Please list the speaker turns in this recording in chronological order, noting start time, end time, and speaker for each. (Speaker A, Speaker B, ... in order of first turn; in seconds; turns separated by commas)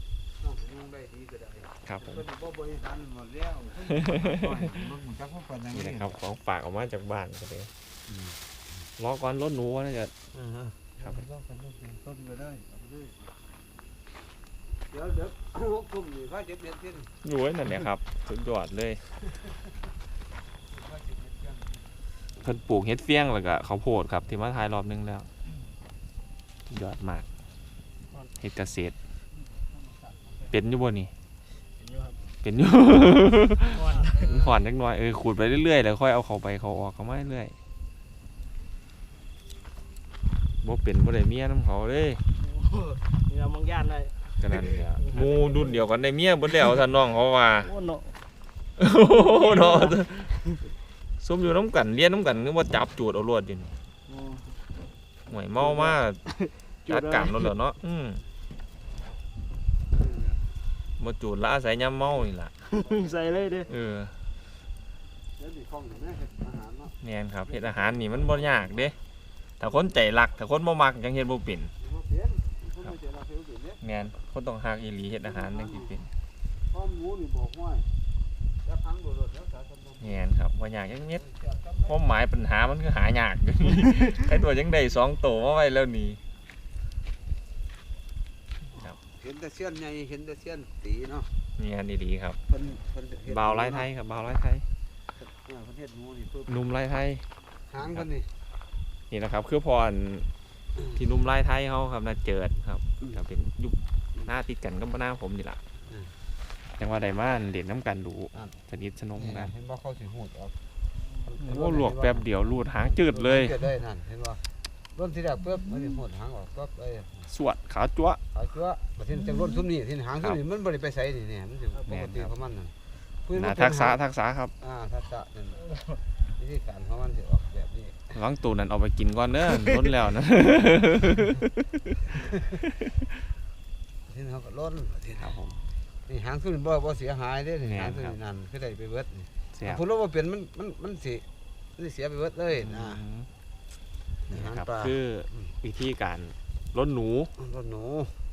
Speaker A: 0.4-6.2, Speaker B: 1.8-2.2, Speaker B: 3.9-4.5, Speaker B: 5.7-7.7, Speaker A: 8.1-8.3, Speaker B: 9.0-10.1, Speaker A: 10.3-13.3, Speaker A: 14.9-17.1, Speaker B: 17.2-19.0, Speaker A: 20.6-21.9, Speaker B: 22.4-25.3, Speaker B: 26.7-27.2, Speaker B: 28.4-28.9, Speaker A: 29.6-30.5, Speaker B: 30.5-31.1, Speaker C: 31.8-32.2, Speaker B: 32.4-37.5, Speaker C: 33.7-34.3, Speaker A: 34.0-34.5, Speaker B: 40.6-42.2, Speaker C: 42.4-45.7, Speaker B: 44.4-47.7, Speaker C: 47.6-48.1, Speaker B: 48.8-50.3, Speaker C: 49.1-50.6, Speaker B: 51.2-53.7, Speaker C: 54.1-54.5, Speaker B: 55.3-56.2, Speaker C: 55.8-57.5, Speaker B: 56.9-58.2, Speaker A: 60.0-60.4, Speaker B: 61.0-62.5, Speaker C: 62.6-63.7, Speaker A: 62.8-63.2, Speaker B: 63.7-64.1, Speaker A: 65.4-66.9, Speaker B: 67.0-69.0, Speaker A: 67.5-68.9, Speaker B: 69.6-71.7, Speaker A: 71.8-73.8, Speaker B: 73.8-76.1, Speaker A: 75.2-75.9, Speaker A: 76.7-77.9, Speaker A: 78.6-80.2, Speaker B: 80.0-81.2, Speaker A: 81.2-82.0, Speaker B: 81.9-86.2, Speaker A: 89.1-91.3, Speaker B: 91.6-92.4, Speaker A: 92.5-93.9, Speaker B: 93.3-94.6, Speaker A: 95.2-96.6, Speaker B: 96.5-97.2, Speaker A: 97.7-98.3, Speaker B: 99.1-100.3, Speaker B: 100.9-105.6, Speaker B: 106.8-109.5, Speaker A: 109.2-110.6, Speaker A: 111.2-114.4, Speaker B: 111.4-113.5, Speaker A: 114.9-117.3, Speaker B: 117.3-118.2, Speaker A: 118.3-124.0, Speaker B: 121.9-122.3, Speaker B: 123.3-124.5, Speaker A: 124.6-125.7, Speaker A: 126.4-128.1, Speaker B: 128.1-132.1, Speaker A: 132.1-132.6, Speaker B: 132.7-132.9, Speaker A: 134.1-135.3, Speaker B: 135.2-135.6, Speaker A: 136.1-141.2, Speaker B: 137.7-138.2, Speaker B: 139.5-139.8, Speaker A: 141.8-143.0, Speaker B: 142.5-143.3, Speaker A: 144.3-145.5, Speaker B: 144.3-147.3, Speaker A: 147.4-148.2